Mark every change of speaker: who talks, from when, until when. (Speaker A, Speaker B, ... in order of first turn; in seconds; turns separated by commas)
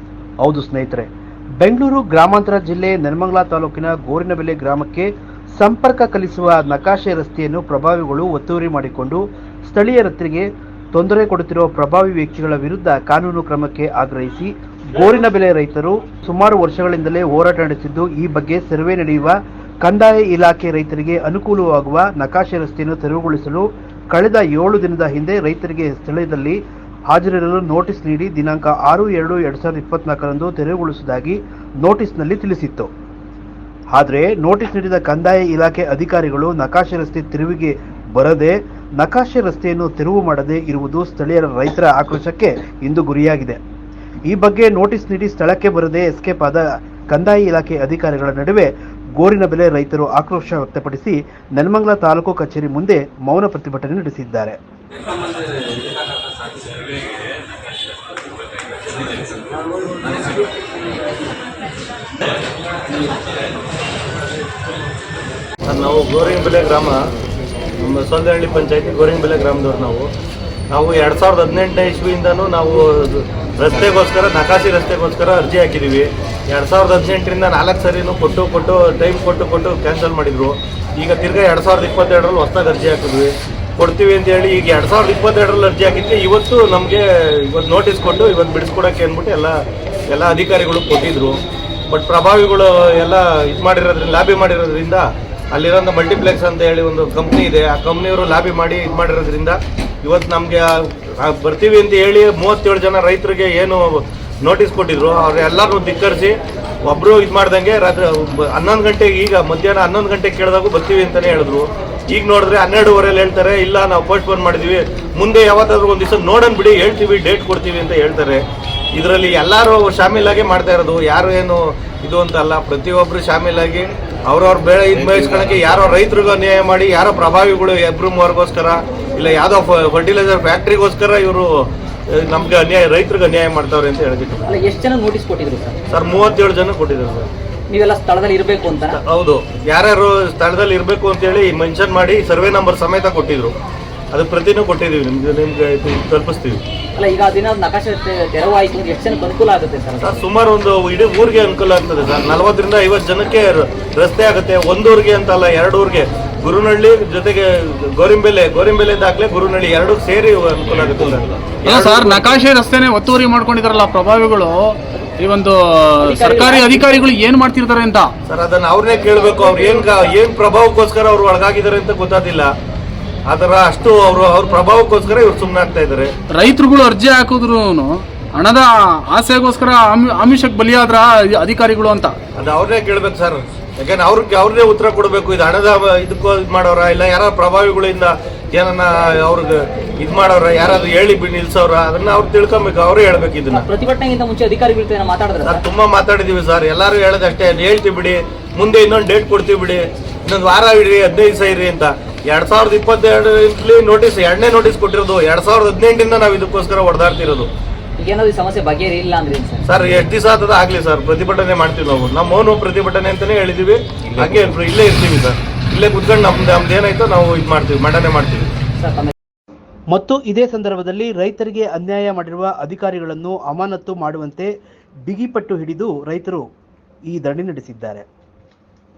Speaker A: 0.4-1.1, Speaker A: 1.6-32.9, Speaker A: 33.9-43.6, Speaker A: 44.3-54.6, Speaker B: 65.7-67.0, Speaker B: 67.8-70.1, Speaker B: 70.7-118.4, Speaker B: 118.9-131.6, Speaker B: 132.1-134.5, Speaker C: 134.4-135.8, Speaker B: 135.9-137.3, Speaker C: 137.7-139.0, Speaker B: 138.9-143.5, Speaker B: 144.1-146.6, Speaker C: 146.9-150.2, Speaker B: 150.0-162.4, Speaker D: 161.7-168.1, Speaker C: 166.0-167.0, Speaker B: 168.3-172.5, Speaker B: 173.3-176.1, Speaker D: 176.3-182.2, Speaker B: 182.3-193.6, Speaker C: 193.5-195.6, Speaker B: 195.4-207.5, Speaker C: 208.0-209.6, Speaker B: 209.7-218.5, Speaker C: 218.8-219.1, Speaker A: 219.9-224.5, Speaker A: 225.1-226.4, Speaker A: 227.1-228.0